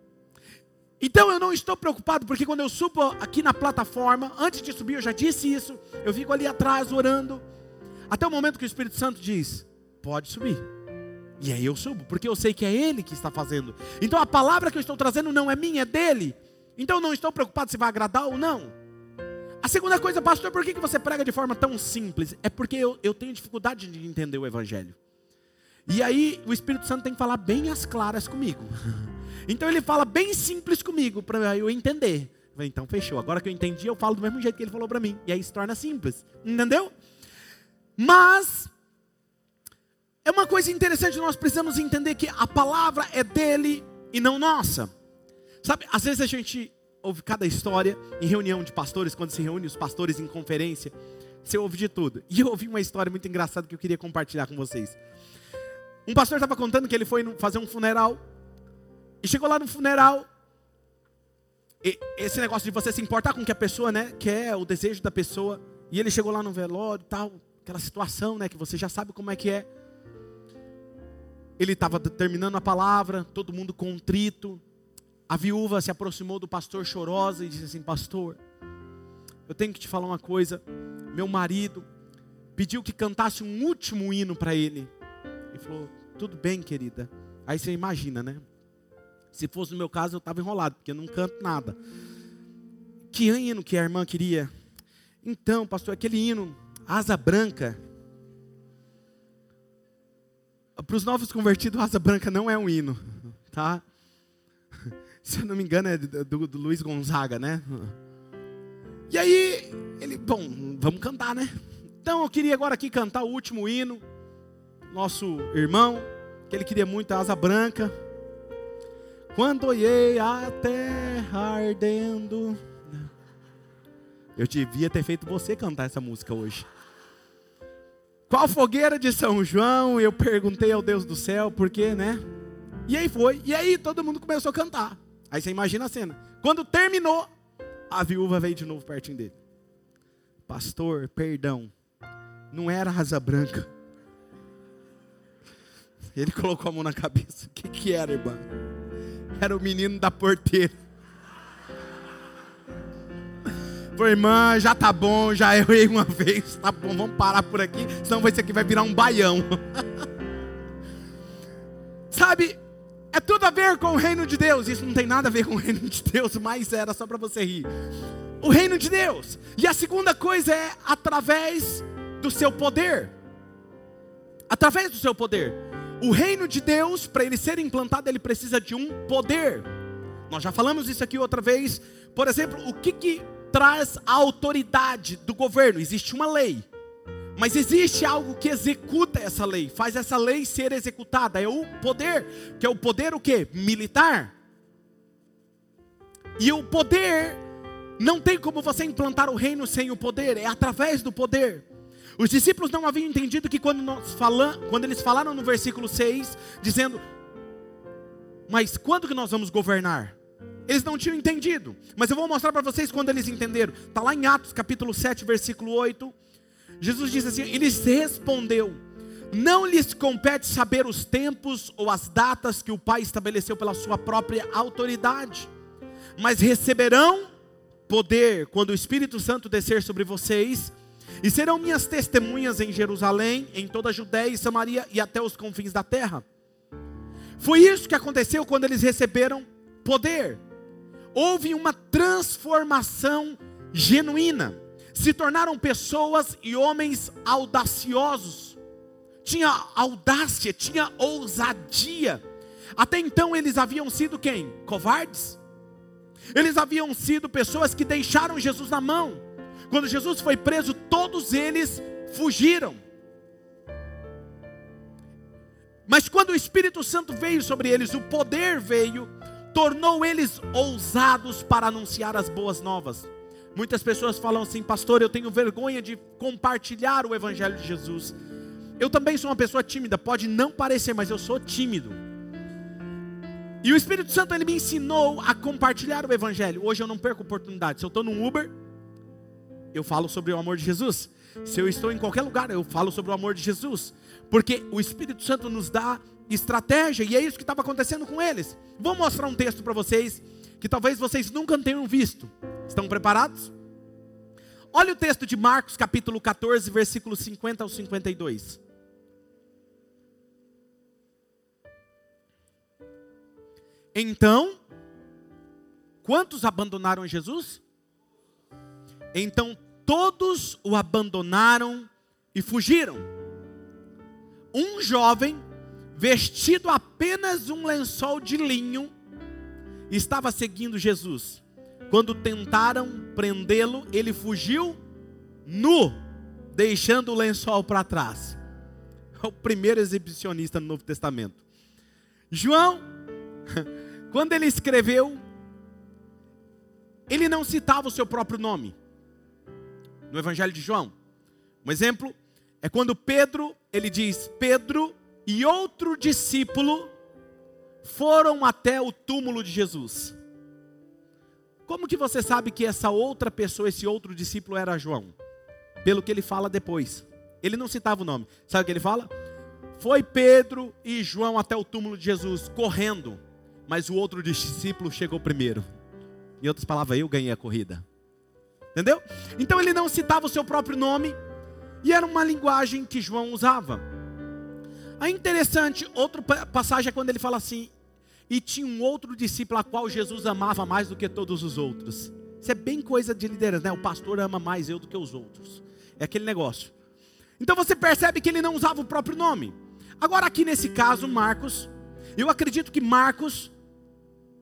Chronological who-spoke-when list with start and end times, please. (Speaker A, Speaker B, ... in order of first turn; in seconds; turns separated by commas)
Speaker A: 1.0-7.4, Speaker A: 8.1-10.6, Speaker A: 11.4-18.7, Speaker A: 19.6-24.9, Speaker A: 25.9-36.9, Speaker A: 38.0-38.7, Speaker A: 40.2-44.9, Speaker A: 45.6-55.0, Speaker A: 56.0-58.2, Speaker A: 59.2-60.3, Speaker A: 61.8-69.7, Speaker A: 71.6-74.6, Speaker A: 75.3-78.4, Speaker A: 79.5-81.8, Speaker A: 82.5-84.9, Speaker A: 85.5-88.4, Speaker A: 89.3-91.8, Speaker A: 93.1-94.5, Speaker A: 95.2-97.8, Speaker A: 100.8-103.8, Speaker A: 105.2-107.9, Speaker A: 109.1-114.0, Speaker A: 114.9-117.9, Speaker A: 119.3-123.1, Speaker A: 124.3-126.7, Speaker A: 128.3-132.2, Speaker A: 132.9-137.3, Speaker A: 137.9-139.3, Speaker A: 140.5-141.7, Speaker A: 142.5-143.7, Speaker A: 146.1-148.4, Speaker A: 149.3-150.8, Speaker A: 153.9-159.8, Speaker A: 162.1-162.6, Speaker A: 163.1-167.7, Speaker A: 168.4-173.1, Speaker A: 174.5-179.7, Speaker A: 180.3-186.6, Speaker A: 187.3-194.3, Speaker A: 196.4-197.4, Speaker A: 198.0-201.6, Speaker A: 202.2-207.0, Speaker A: 208.5-210.2, Speaker A: 210.7-216.1, Speaker A: 216.8-218.8, Speaker A: 219.3-225.5, Speaker A: 226.2-227.3, Speaker A: 227.9-236.2, Speaker A: 237.4-240.4, Speaker A: 241.1-248.6, Speaker A: 249.2-252.2, Speaker A: 252.8-255.4, Speaker A: 256.3-262.8, Speaker A: 265.9-278.1, Speaker A: 278.8-282.0, Speaker A: 283.6-288.5, Speaker A: 289.7-303.5, Speaker A: 304.7-308.6, Speaker A: 313.9-314.6, Speaker A: 316.0-317.6, Speaker A: 319.1-323.1, Speaker A: 324.5-325.4, Speaker A: 325.9-328.9, Speaker A: 329.9-334.8, Speaker A: 335.4-336.0, Speaker A: 336.5-338.4, Speaker A: 339.2-341.4, Speaker A: 342.3-342.8, Speaker A: 343.5-345.2, Speaker A: 347.1-348.7, Speaker A: 350.1-350.9, Speaker A: 351.6-356.9, Speaker A: 357.8-360.1, Speaker A: 361.7-365.1, Speaker A: 365.8-369.1, Speaker A: 369.8-375.7, Speaker A: 376.4-377.8, Speaker A: 378.7-381.2, Speaker A: 381.8-383.8, Speaker A: 385.0-387.7, Speaker A: 388.3-396.7, Speaker A: 397.4-403.5